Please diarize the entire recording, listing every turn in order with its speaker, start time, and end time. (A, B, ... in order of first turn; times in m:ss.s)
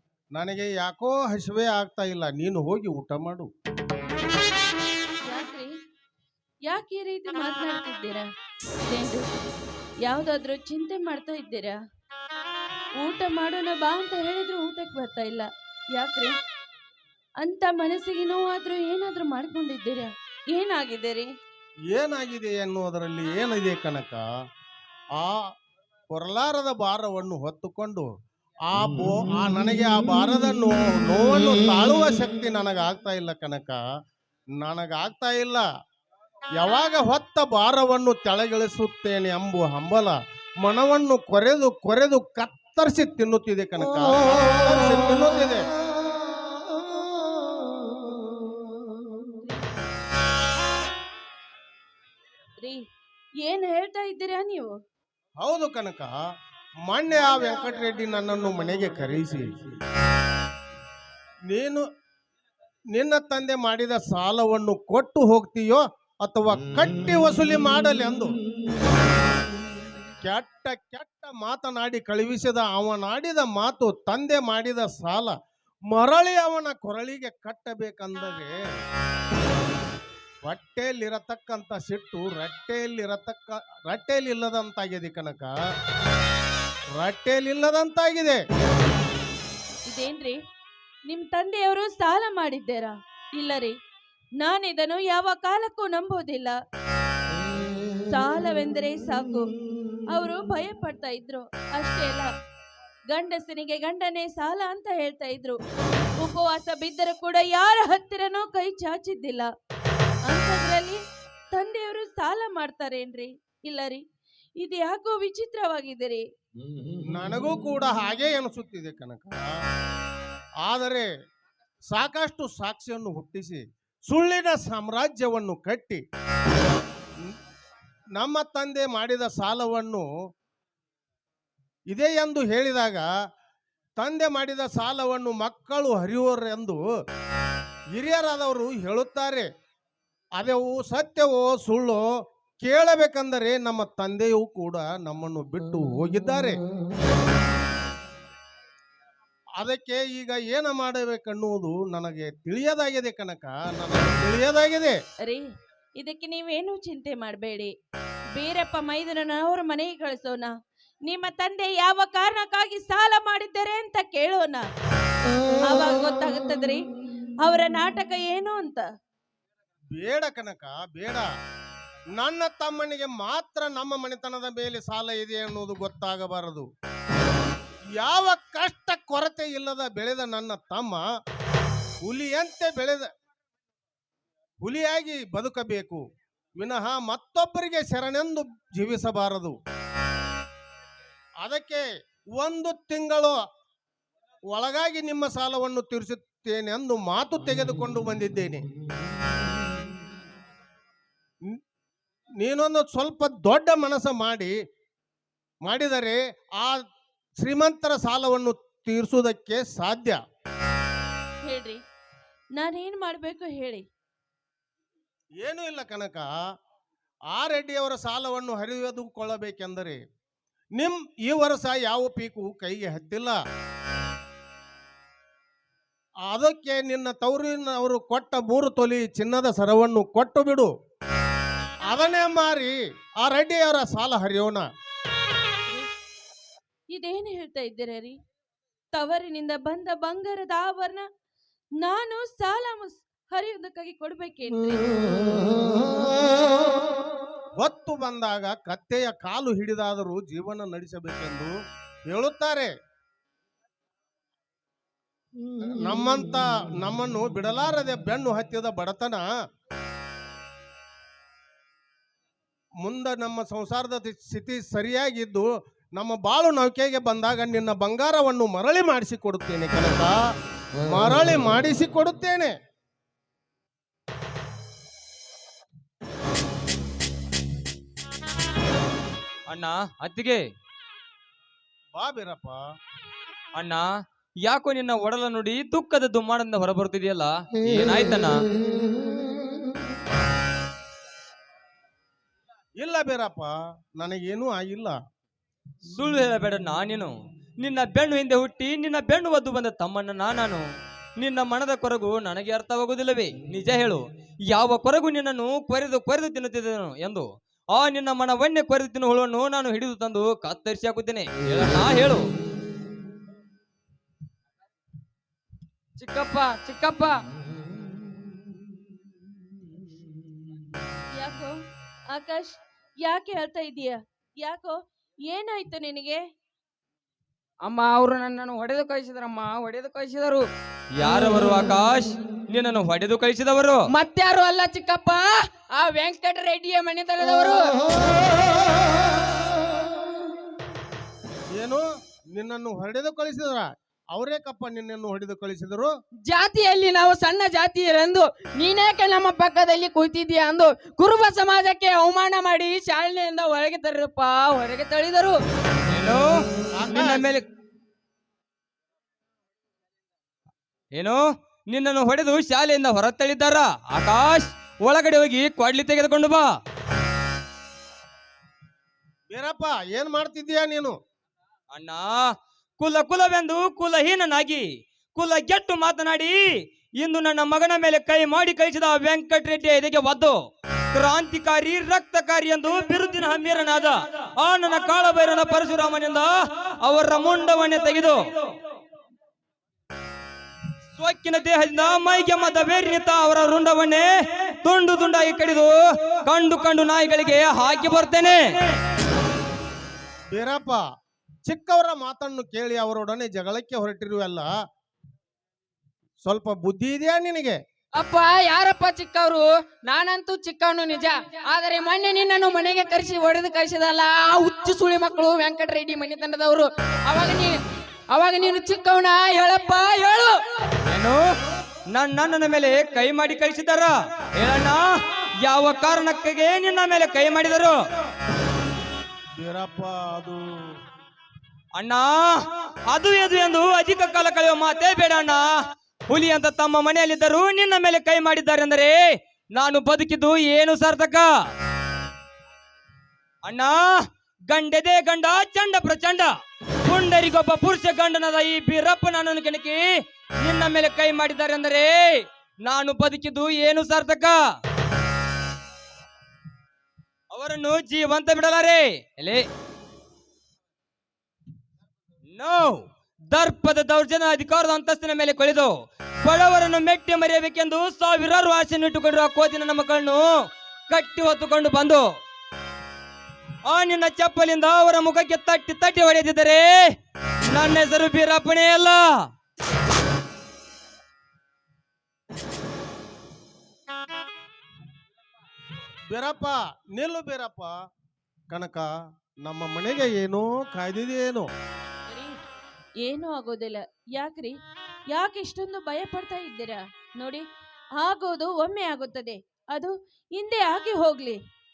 0:00.3-0:03.5 A
0:05.3-0:05.7 B
0:06.6-0:08.3 B
0:08.9-0:09.2 B
0:10.0-0:11.8 B
0:13.0-0:16.4 B
0:17.4-0:21.3 B
0:21.9-0:24.2 A
0:25.2-0:25.5 A
0:26.1-0:28.1 A
0:28.7-0:33.8 A
0:34.6-0:35.6 A
0:36.6-0:45.6 A
0:53.4-0:54.7 B
0:55.4-0:56.1 A
0:56.9-0:59.5 A
1:01.5-1:01.8 A
1:02.9-1:08.3 A
1:10.2-1:15.3 A
1:15.9-1:18.6 A
1:20.5-1:25.5 A
1:27.0-1:28.4 A
1:29.9-1:30.4 B
1:31.1-1:33.8 B
1:34.4-1:36.6 B
1:38.1-1:39.4 B
1:40.1-1:42.3 B
1:43.1-1:45.6 B
1:46.2-1:49.5 B
1:50.3-1:51.0 B
1:51.5-1:54.0 B
1:54.6-1:56.2 B
1:57.1-1:59.6 A
2:00.6-2:01.1 A
2:01.9-2:06.0 A
2:08.2-2:10.1 A
2:11.9-2:13.1 A
2:14.0-2:16.8 A
2:17.9-2:19.5 A
2:20.4-2:22.0 A
2:22.6-2:26.6 A
2:29.6-2:35.0 A
2:36.0-2:37.7 B
2:38.4-2:40.5 B
2:41.1-2:44.7 B
2:45.6-2:46.8 B
2:47.4-2:48.9 B
2:50.0-2:51.3 A
2:52.2-2:56.6 A
2:58.0-3:01.0 A
3:02.0-3:03.1 A
3:04.6-3:06.0 A
3:06.6-3:09.6 A
3:11.4-3:13.4 A
3:14.5-3:18.6 A
3:22.4-3:24.5 A
3:25.6-3:26.8 A
3:27.4-3:30.2 A
3:31.4-3:31.8 B
3:32.6-3:33.8 B
3:35.4-3:36.3 A
3:37.3-3:40.0 A
3:40.8-3:43.4 A
3:46.3-3:50.7 A
3:51.9-3:54.6 A
3:56.9-3:58.2 B
3:58.9-4:01.0 B
4:01.8-4:05.2 B
4:07.6-4:11.5 A
4:12.1-4:12.7 A
4:15.8-4:19.2 A
4:22.8-4:30.2 A
4:30.8-4:32.6 A
4:39.5-4:40.4 C
4:42.0-4:42.6 A
4:43.6-4:43.9 C
4:44.4-4:48.4 C
4:52.8-4:55.0 A
4:55.9-5:00.6 C
5:01.2-5:12.3 C
5:16.0-5:17.2 D
5:21.2-5:21.6 B
5:22.1-5:26.2 B
5:27.6-5:30.4 D
5:31.0-5:33.8 C
5:33.9-5:38.3 D
5:41.6-5:45.9 A
5:46.3-5:55.4 D
5:55.9-5:56.3 C
5:56.7-5:57.3 A
5:56.9-5:57.5 C
6:00.9-6:06.5 C
6:09.3-6:11.0 A
6:11.7-6:12.2 C
6:12.8-6:16.4 C
6:17.0-6:20.4 C
6:20.9-6:28.5 C
6:31.0-6:34.1 C
6:34.6-6:38.4 C
6:40.3-6:40.8 A
6:41.4-6:44.5 A
6:46.2-6:47.6 A
6:48.0-6:57.6 D
6:58.1-7:00.4 D
7:00.9-7:01.2 C
7:01.9-7:04.9 C
7:05.4-7:07.8 C
7:09.4-7:10.4 A
7:11.7-7:15.5 C
7:16.1-7:19.0 C
7:19.5-7:21.3 C
7:23.4-7:26.3 C
7:26.9-7:29.8 C
7:30.4-7:34.4 C
7:37.3-7:39.5 C
7:42.3-7:45.7 C
7:46.2-7:50.3 C
7:50.9-7:52.1 C
7:53.7-7:56.9 C
7:57.5-7:59.1 C
8:06.1-8:07.7 A
8:08.5-8:08.9 A
8:09.4-8:11.5 A
8:12.1-8:12.4 B
8:13.0-8:14.6 B
8:15.1-8:17.4 B
8:18.0-8:21.4 B